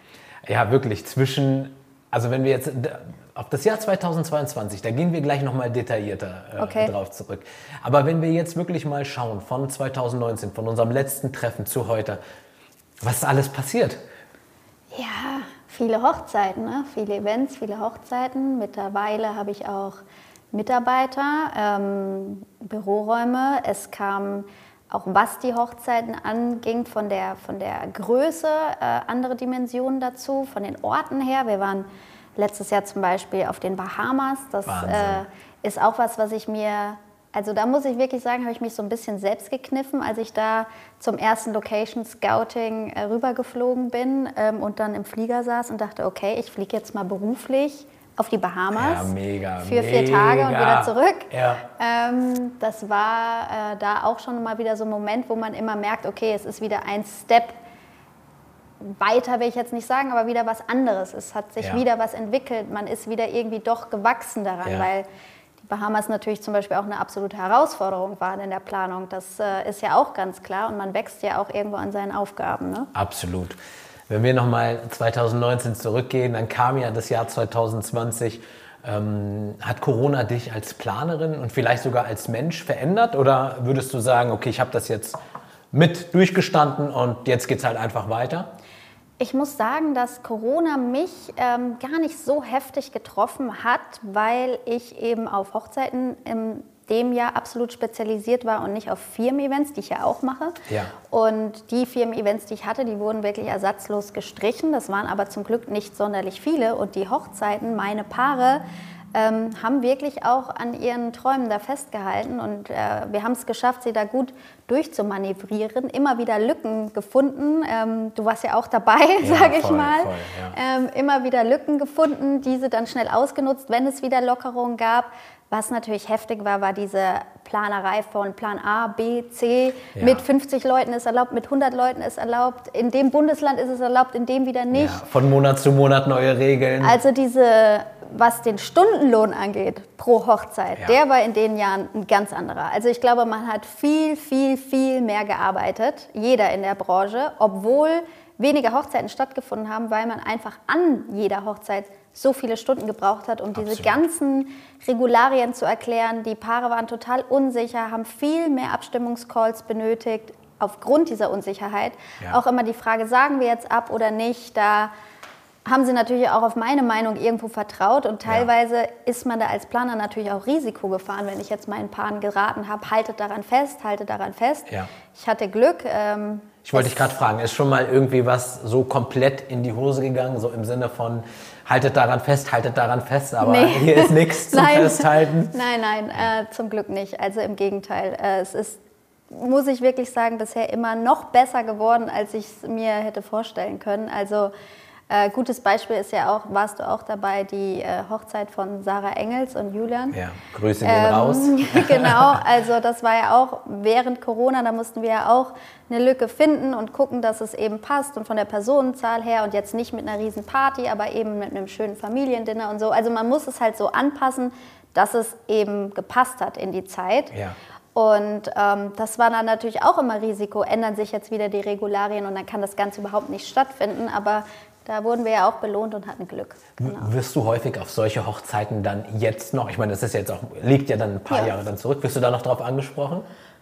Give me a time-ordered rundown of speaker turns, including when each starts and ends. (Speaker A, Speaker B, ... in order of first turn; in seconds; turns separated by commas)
Speaker A: 0.5-12.2, Speaker B: 6.6-6.9, Speaker A: 13.0-14.0, Speaker B: 14.9-20.0, Speaker B: 20.5-57.6, Speaker A: 34.7-35.2, Speaker A: 48.8-51.6, Speaker B: 58.8-65.1, Speaker B: 65.6-72.9, Speaker A: 73.0-73.6, Speaker A: 74.1-85.2, Speaker A: 85.7-88.5, Speaker B: 89.2-100.6, Speaker A: 100.7-100.9, Speaker B: 101.1-108.6, Speaker B: 109.1-135.0, Speaker A: 119.2-120.6, Speaker A: 130.0-130.2, Speaker A: 134.7-137.0, Speaker B: 136.8-164.9, Speaker A: 153.6-154.0, Speaker B: 165.7-177.1, Speaker A: 176.6-185.5, Speaker B: 183.4-188.8, Speaker B: 189.3-194.5, Speaker B: 195.1-200.2, Speaker A: 200.1-202.4, Speaker B: 200.8-217.3, Speaker B: 217.9-227.1, Speaker A: 226.8-233.3